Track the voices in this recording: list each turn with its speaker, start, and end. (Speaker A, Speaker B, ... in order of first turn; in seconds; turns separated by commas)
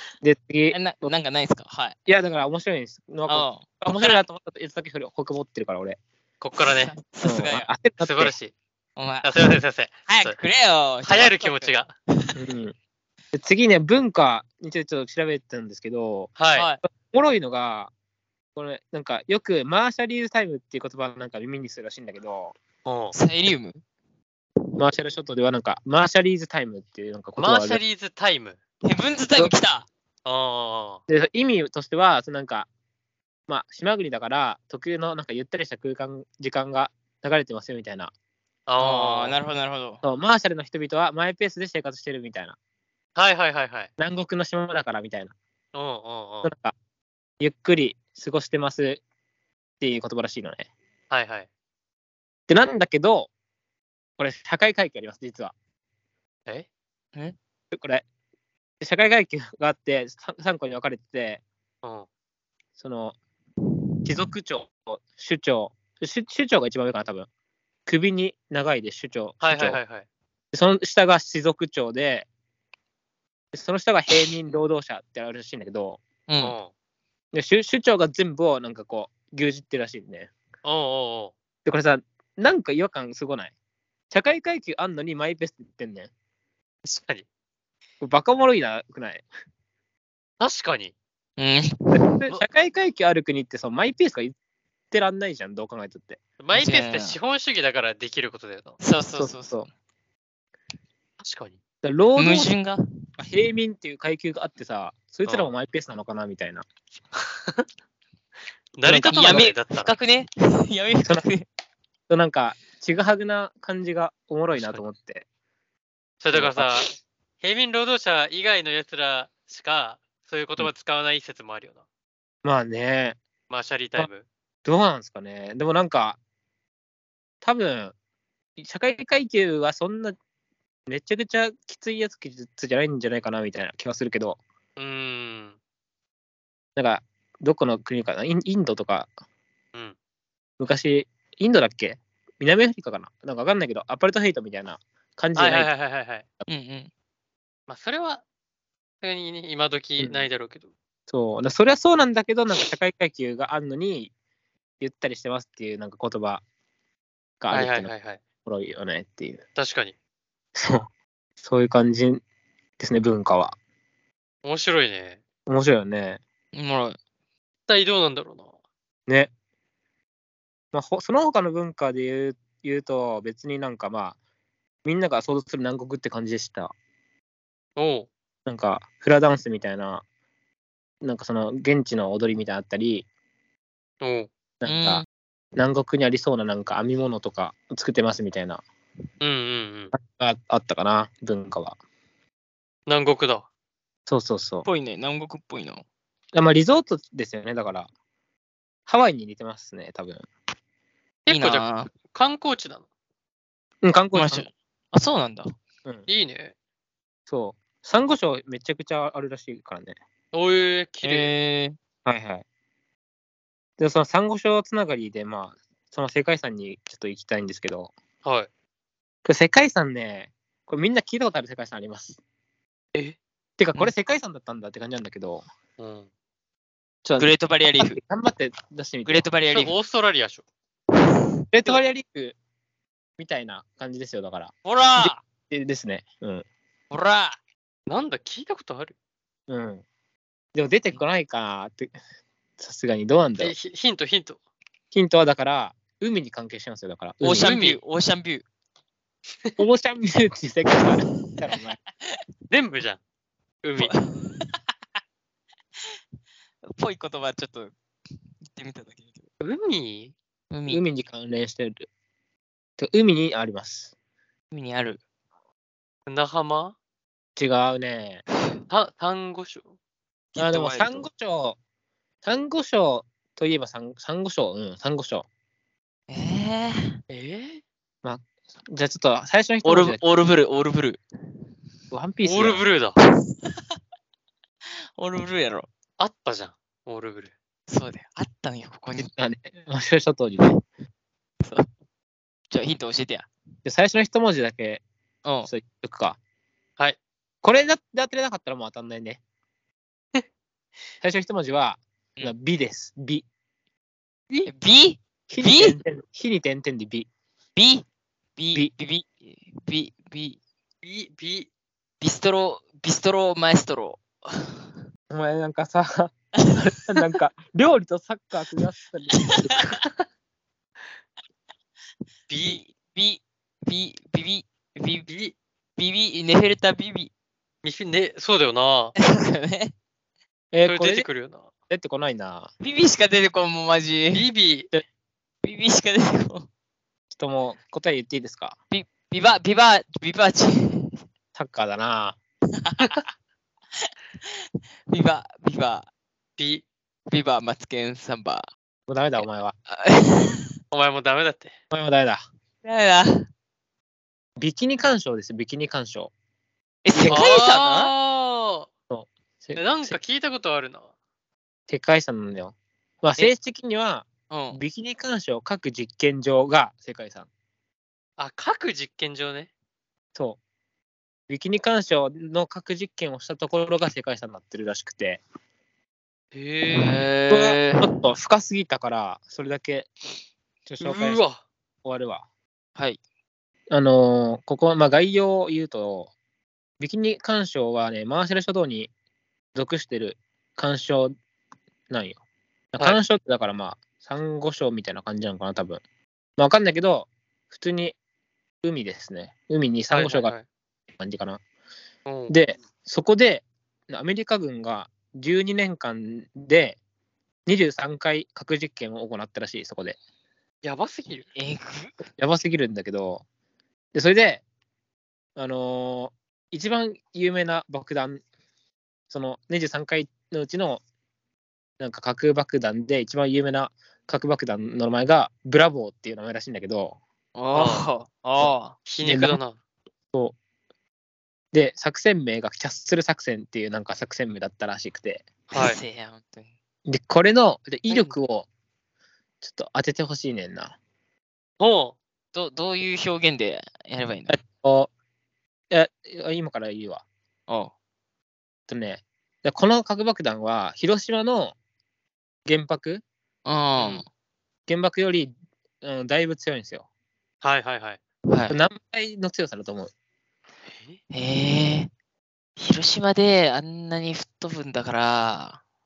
Speaker A: 0.2-1.1, Speaker B: 0.7-2.0, Speaker A: 2.1-6.0, Speaker B: 3.3-3.7, Speaker C: 6.4-6.9, Speaker B: 6.6-7.7, Speaker A: 7.2-8.3, Speaker C: 8.0-8.5, Speaker B: 9.0-12.4, Speaker C: 9.2-10.4, Speaker C: 11.0-11.9, Speaker A: 12.4-12.8, Speaker A: 13.3-16.4, Speaker C: 16.4-16.7, Speaker B: 16.5-16.8, Speaker A: 16.9-17.9, Speaker A: 18.6-22.6, Speaker C: 22.9-23.1, Speaker B: 23.1-23.8, Speaker A: 24.8-27.8, Speaker C: 27.4-28.6, Speaker B: 28.8-29.9, Speaker C: 30.2-31.0, Speaker A: 31.1-32.7, Speaker A: 33.5-38.1, Speaker C: 38.7-39.4, Speaker B: 38.8-40.0, Speaker A: 40.0-42.6, Speaker C: 43.2-43.9, Speaker A: 44.0-45.3, Speaker C: 45.7-46.5, Speaker A: 46.4-46.7, Speaker A: 47.4-49.0, Speaker A: 49.8-50.7, Speaker C: 51.1-51.5, Speaker A: 52.5-53.3, Speaker A: 54.2-55.5, Speaker A: 57.7-58.0, Speaker A: 58.8-61.4, Speaker A: 62.8-63.2, Speaker A: 64.0-67.3, Speaker A: 67.9-69.8, Speaker C: 69.4-70.1, Speaker A: 70.5-72.3, Speaker A: 73.5-76.0, Speaker B: 76.3-76.6, Speaker C: 76.4-76.7, Speaker A: 77.3-80.3, Speaker C: 80.6-81.3, Speaker A: 81.7-83.5, Speaker A: 84.1-86.1, Speaker C: 86.8-87.2, Speaker A: 88.0-89.2, Speaker C: 90.4-90.9, Speaker B: 91.4-92.2, Speaker A: 91.9-94.3, Speaker A: 94.9-96.2, Speaker C: 96.4-98.8, Speaker B: 96.5-97.2, Speaker B: 98.8-99.7, Speaker A: 99.2-99.7, Speaker C: 101.2-101.6, Speaker A: 101.8-102.5, Speaker B: 102.2-102.8, Speaker A: 103.2-106.7, Speaker C: 107.2-107.6, Speaker C: 108.8-109.9, Speaker A: 108.9-109.5, Speaker B: 109.0-111.5, Speaker A: 112.1-115.3, Speaker C: 114.5-114.8, Speaker C: 116.2-116.9, Speaker A: 116.3-116.7, Speaker C: 117.4-121.8, Speaker A: 122.4-123.2, Speaker C: 123.5-124.3, Speaker A: 124.7-126.2, Speaker A: 127.4-128.0, Speaker A: 128.6-130.2, Speaker A: 130.9-134.4, Speaker C: 134.8-135.6, Speaker A: 136.8-139.1, Speaker A: 140.6-145.7, Speaker C: 145.3-146.2, Speaker B: 146.5-146.9, Speaker C: 147.7-148.2, Speaker C: 149.0-150.7, Speaker A: 150.0-150.2, Speaker A: 151.1-154.1, Speaker A: 154.8-156.4, Speaker A: 157.4-157.9, Speaker C: 157.5-158.2, Speaker A: 158.4-159.4, Speaker C: 159.6-159.9, Speaker A: 160.6-160.9, Speaker A: 161.4-162.2, Speaker A: 162.8-163.6, Speaker C: 164.4-165.2, Speaker A: 165.5-166.2, Speaker B: 166.5-167.0, Speaker C: 167.7-168.5, Speaker A: 169.1-169.3, Speaker A: 170.7-174.2, Speaker A: 174.8-176.7, Speaker C: 177.8-178.1, Speaker A: 178.5-180.1, Speaker A: 181.0-183.1, Speaker C: 184.0-184.3, Speaker A: 184.6-185.1, Speaker B: 184.7-185.1, Speaker A: 185.6-188.6, Speaker C: 189.2-189.9, Speaker A: 189.9-191.8, Speaker C: 192.9-193.5, Speaker A: 194.1-194.7, Speaker B: 194.7-195.8, Speaker A: 196.3-197.9, Speaker A: 198.9-200.2, Speaker C: 201.3-202.8, Speaker B: 201.3-201.9, Speaker A: 203.8-204.5, Speaker B: 204.2-205.5, Speaker C: 206.1-206.5, Speaker A: 207.3-210.0, Speaker C: 210.3-211.3, Speaker B: 211.0-211.8, Speaker A: 212.1-212.4, Speaker A: 213.8-217.9, Speaker C: 218.2-218.5, Speaker A: 219.2-222.2, Speaker A: 223.6-225.4, Speaker C: 225.8-226.1, Speaker A: 227.0-229.3, Speaker B: 227.2-228.0, Speaker B: 229.1-229.8, Speaker C: 229.5-230.4, Speaker B: 231.1-231.4, Speaker A: 231.5-232.4, Speaker A: 233.2-236.4, Speaker B: 234.7-235.2, Speaker B: 236.9-237.4, Speaker C: 237.9-238.9, Speaker A: 239.5-239.8, Speaker A: 240.5-241.9, Speaker A: 242.6-243.5, Speaker C: 243.4-244.4, Speaker A: 244.9-247.6, Speaker B: 247.2-248.4, Speaker C: 247.4-247.8, Speaker A: 249.6-251.8, Speaker B: 250.8-251.6, Speaker C: 252.5-253.0, Speaker C: 253.6-253.9, Speaker B: 253.8-254.6, Speaker B: 256.7-257.7, Speaker B: 258.5-259.2, Speaker C: 259.4-260.1, Speaker B: 260.5-260.8, Speaker A: 260.7-261.9, Speaker A: 262.8-263.9, Speaker B: 264.5-265.0, Speaker C: 266.1-266.8, Speaker A: 267.4-268.2, Speaker C: 268.7-269.7, Speaker B: 270.3-271.1, Speaker A: 270.4-271.6, Speaker A: 272.2-275.3, Speaker B: 276.1-277.0, Speaker C: 277.1-277.6, Speaker A: 278.0-280.0, Speaker B: 279.6-281.0, Speaker A: 281.9-282.6, Speaker C: 282.2-283.0, Speaker B: 283.0-283.6, Speaker B: 285.0-285.7, Speaker C: 286.0-287.3, Speaker B: 287.7-289.1, Speaker A: 289.0-290.5, Speaker B: 292.5-293.3, Speaker A: 293.6-294.8, Speaker B: 295.2-295.5, Speaker A: 295.5-296.2, Speaker A: 297.4-299.2, Speaker A: 301.0-303.3, Speaker B: 304.5-305.8, Speaker A: 305.3-307.1, Speaker B: 307.6-307.9, Speaker B: 308.4-310.4, Speaker C: 310.8-311.5, Speaker B: 312.0-314.7, Speaker A: 315.1-319.8, Speaker B: 316.4-317.0, Speaker B: 319.1-319.7, Speaker C: 322.3-322.6, Speaker B: 322.4-325.1, Speaker C: 325.1-325.4, Speaker B: 325.8-327.1, Speaker C: 327.6-328.9, Speaker B: 329.0-329.7, Speaker A: 330.5-331.1, Speaker C: 330.6-331.5, Speaker A: 331.7-332.5, Speaker B: 332.6-334.3, Speaker C: 334.1-334.7, Speaker B: 335.4-336.5, Speaker A: 337.1-338.6, Speaker B: 338.7-341.0, Speaker A: 341.4-342.2, Speaker B: 342.6-343.0, Speaker B: 343.8-345.9, Speaker C: 346.4-346.6, Speaker B: 347.1-348.5, Speaker A: 348.9-349.6, Speaker B: 349.7-350.5, Speaker C: 350.7-351.5, Speaker A: 351.7-352.2, Speaker B: 352.6-353.3, Speaker A: 354.4-356.1, Speaker B: 356.9-357.9, Speaker A: 356.9-357.3, Speaker C: 357.1-358.7, Speaker A: 358.9-360.0, Speaker C: 359.6-360.9, Speaker A: 361.7-367.3, Speaker B: 364.3-364.6, Speaker C: 368.2-369.5, Speaker A: 371.3-375.2, Speaker C: 376.3-377.1, Speaker B: 376.7-377.9, Speaker A: 377.3-379.9, Speaker A: 380.7-381.2, Speaker C: 380.8-381.4, Speaker A: 381.8-382.2, Speaker A: 383.7-386.1, Speaker A: 386.8-388.9, Speaker A: 389.6-391.1, Speaker A: 391.9-392.2, Speaker A: 392.7-395.8, Speaker A: 396.4-398.0, Speaker A: 398.6-400.3, Speaker C: 399.9-400.4, Speaker A: 401.0-401.4, Speaker C: 402.1-402.4, Speaker A: 402.3-406.8, Speaker A: 407.5-410.0, Speaker C: 410.6-411.3, Speaker B: 411.4-411.9, Speaker A: 412.2-413.2, Speaker A: 413.9-414.4, Speaker A: 415.4-418.2, Speaker A: 419.1-420.8, Speaker A: 421.8-427.0, Speaker B: 427.4-428.8, Speaker C: 427.5-427.9, Speaker A: 428.4-429.4, Speaker C: 428.9-429.6, Speaker A: 431.5-435.3, Speaker C: 435.5-435.8, Speaker B: 435.5-436.5, Speaker A: 436.9-438.5, Speaker C: 437.9-438.1, Speaker A: 439.4-440.8, Speaker C: 441.6-442.0, Speaker B: 442.3-444.4, Speaker A: 444.3-444.9, Speaker A: 445.7-447.0, Speaker A: 448.7-451.6, Speaker A: 452.5-453.0, Speaker B: 453.5-454.1, Speaker C: 453.8-454.0, Speaker A: 454.7-455.3, Speaker A: 455.8-456.9, Speaker C: 457.4-458.0, Speaker B: 458.3-458.6, Speaker A: 458.5-459.9, Speaker C: 460.7-461.0, Speaker B: 461.1-461.9, Speaker B: 462.6-465.6